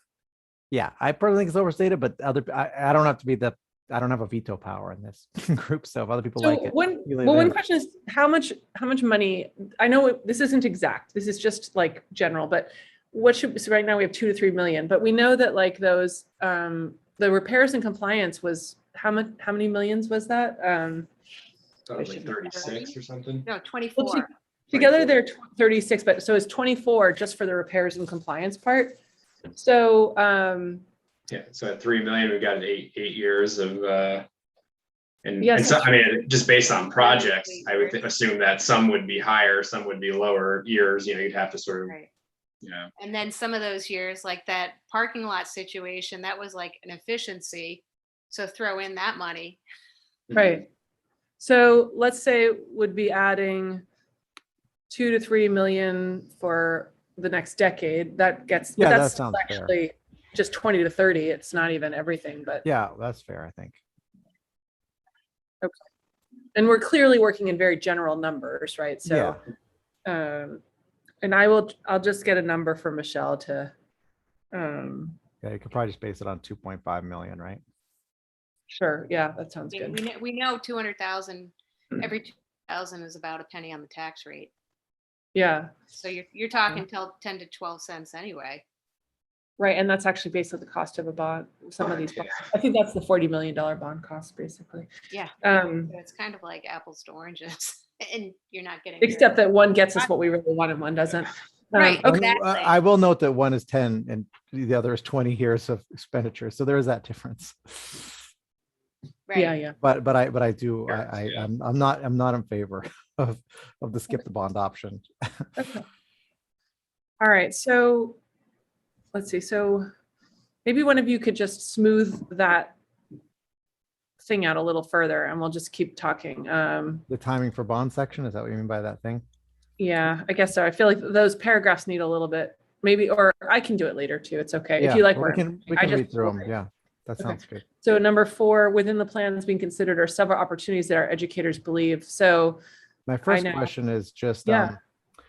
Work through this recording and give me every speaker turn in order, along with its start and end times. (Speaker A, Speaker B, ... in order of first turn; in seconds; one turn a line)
Speaker A: 0.7-7.6
Speaker B: 6.4-21.1
Speaker C: 21.9-23.5
Speaker B: 21.9-22.7
Speaker D: 22.5-22.9
Speaker D: 23.4-24.3
Speaker B: 24.0-29.0
Speaker C: 24.7-25.1
Speaker B: 29.5-30.8
Speaker C: 31.3-34.2
Speaker C: 35.2-41.9
Speaker B: 35.4-35.9
Speaker D: 36.9-38.1
Speaker C: 42.6-42.9
Speaker D: 43.0-49.6
Speaker B: 50.3-50.7
Speaker B: 51.4-53.8
Speaker B: 54.9-62.6
Speaker A: 58.8-59.7
Speaker A: 62.6-63.8
Speaker B: 66.5-69.4
Speaker A: 69.1-69.4
Speaker B: 70.1-70.6
Speaker B: 71.2-73.7
Speaker B: 74.5-75.2
Speaker A: 75.4-77.6
Speaker B: 78.7-80.0
Speaker D: 79.7-84.5
Speaker B: 85.3-85.7
Speaker D: 85.9-88.6
Speaker B: 89.6-94.9
Speaker D: 95.1-99.4
Speaker B: 95.4-95.9
Speaker B: 99.0-102.2
Speaker D: 101.7-102.8
Speaker A: 102.0-108.2
Speaker D: 109.3-109.6
Speaker B: 109.3-109.8
Speaker A: 109.8-115.5
Speaker C: 110.9-111.5
Speaker B: 115.6-115.8
Speaker B: 117.2-118.2
Speaker B: 119.1-119.9
Speaker B: 120.7-122.8
Speaker B: 124.2-127.0
Speaker A: 127.1-129.2
Speaker B: 129.8-136.5
Speaker A: 134.8-137.6
Speaker B: 137.2-142.6
Speaker A: 143.1-144.8
Speaker B: 143.2-143.7
Speaker B: 144.4-144.8